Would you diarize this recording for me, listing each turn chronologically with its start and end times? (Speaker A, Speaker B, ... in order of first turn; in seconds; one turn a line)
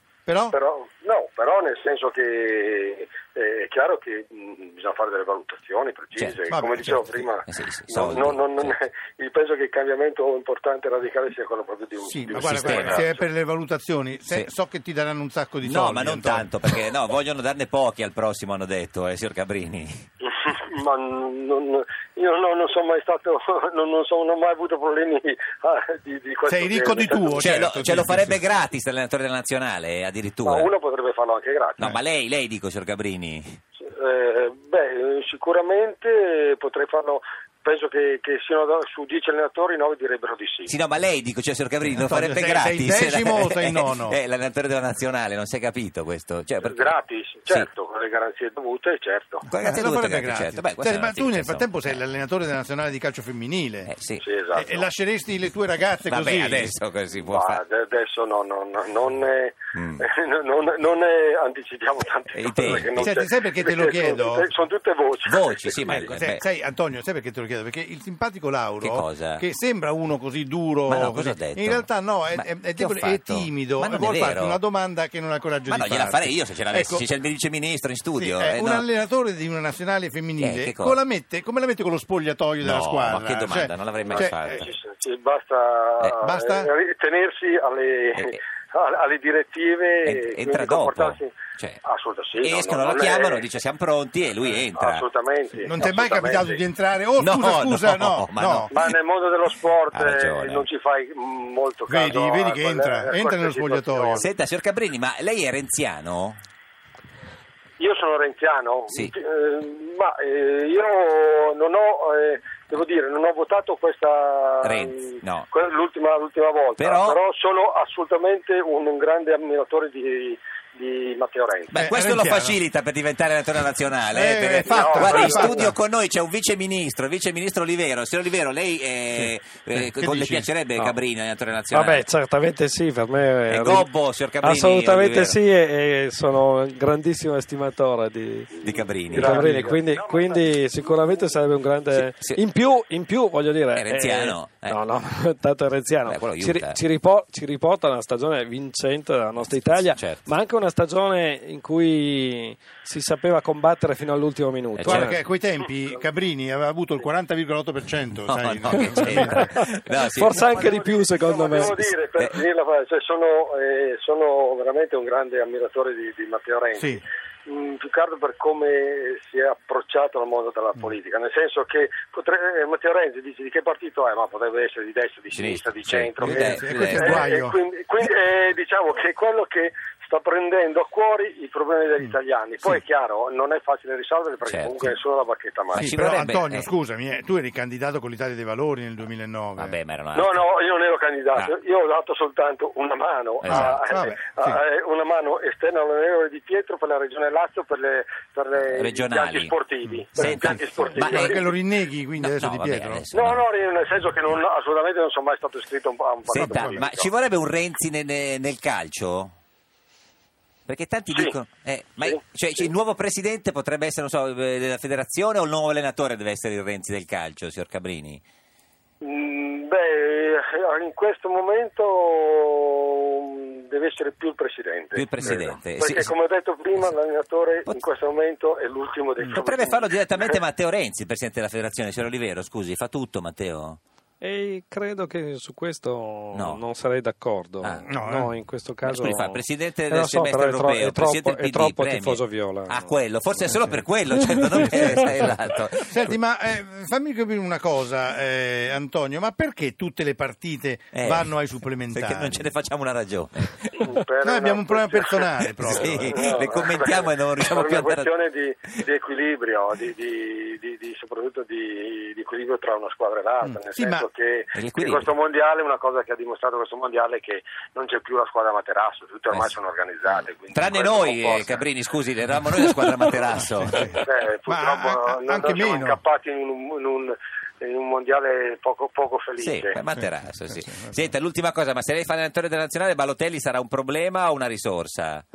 Speaker A: 0.2-0.6
Speaker B: 0.5-13.2
Speaker A: 6.5-7.1
Speaker C: 7.4-8.8
Speaker A: 12.1-16.5
Speaker C: 12.3-13.1
Speaker C: 15.6-20.1
Speaker B: 20.2-27.5
Speaker A: 26.5-28.4
Speaker C: 27.4-30.7
Speaker B: 30.4-31.9
Speaker C: 31.8-33.6
Speaker B: 33.8-40.7
Speaker C: 40.6-46.9
Speaker A: 42.0-44.2
Speaker B: 46.6-49.4
Speaker C: 49.4-52.0
Speaker A: 49.6-53.9
Speaker C: 53.9-54.2
Speaker B: 54.2-54.9
Speaker A: 54.5-56.8
Speaker C: 56.1-57.6
Speaker B: 57.1-66.1
Speaker C: 59.7-60.0
Speaker C: 62.3-63.1
Speaker A: 62.9-64.5
Speaker C: 65.2-66.4
Speaker A: 65.9-77.0
Speaker C: 68.8-69.4
Speaker C: 70.9-74.6
Speaker C: 75.7-78.8
Speaker A: 78.2-84.7
Speaker C: 80.4-81.0
Speaker C: 82.6-84.7
Speaker B: 84.0-93.5
Speaker A: 86.2-86.7
Speaker C: 90.0-91.8
Speaker C: 92.4-95.0
Speaker B: 94.7-96.6
Speaker A: 95.6-98.7
Speaker C: 97.2-98.7
Speaker B: 98.7-104.3
Speaker C: 99.9-100.7
Speaker A: 101.9-104.2
Speaker C: 104.1-106.4
Speaker B: 107.8-121.7
Speaker C: 114.6-115.5
Speaker C: 116.8-117.2
Speaker C: 121.7-132.0
Speaker A: 121.7-122.5
Speaker A: 124.1-125.7
Speaker B: 124.7-125.7
Speaker A: 129.2-130.5
Speaker D: 131.7-133.9
Speaker C: 133.5-135.4
Speaker D: 134.4-155.2
Speaker C: 138.6-139.6
Speaker B: 139.1-141.3
Speaker C: 141.9-142.4
Speaker C: 143.7-144.8
Speaker C: 146.1-146.8
Speaker C: 149.9-150.2
Speaker C: 154.8-155.1
Speaker A: 154.8-159.5
Speaker B: 155.8-156.0
Speaker C: 158.3-160.7
Speaker D: 159.1-161.9
Speaker B: 160.3-185.9
Speaker C: 175.3-177.2
Speaker A: 176.2-177.6
Speaker C: 184.4-184.9
Speaker A: 185.7-189.8
Speaker C: 185.8-186.7
Speaker C: 189.6-190.4
Speaker B: 190.1-201.4
Speaker C: 193.4-193.8
Speaker A: 193.5-194.6
Speaker C: 198.7-199.5
Speaker A: 199.8-203.0
Speaker C: 200.1-201.4
Speaker C: 202.2-203.4
Speaker B: 203.1-207.1
Speaker C: 206.3-209.3
Speaker A: 206.3-206.8
Speaker C: 210.7-218.2
Speaker B: 211.1-211.3
Speaker B: 212.0-212.7
Speaker B: 219.0-230.4
Speaker C: 224.9-226.1
Speaker C: 229.2-233.8
Speaker D: 234.2-243.8
Speaker C: 236.3-236.6
Speaker A: 237.9-238.3
Speaker C: 238.8-246.1
Speaker D: 244.3-245.2
Speaker A: 245.9-252.4
Speaker C: 250.9-251.3
Speaker C: 251.9-253.9
Speaker B: 253.8-271.6
Speaker A: 254.2-256.3
Speaker C: 255.6-258.1
Speaker A: 263.4-264.1
Speaker C: 264.5-265.1
Speaker C: 270.1-273.9
Speaker A: 273.6-276.0
Speaker B: 274.0-279.8
Speaker C: 279.4-285.2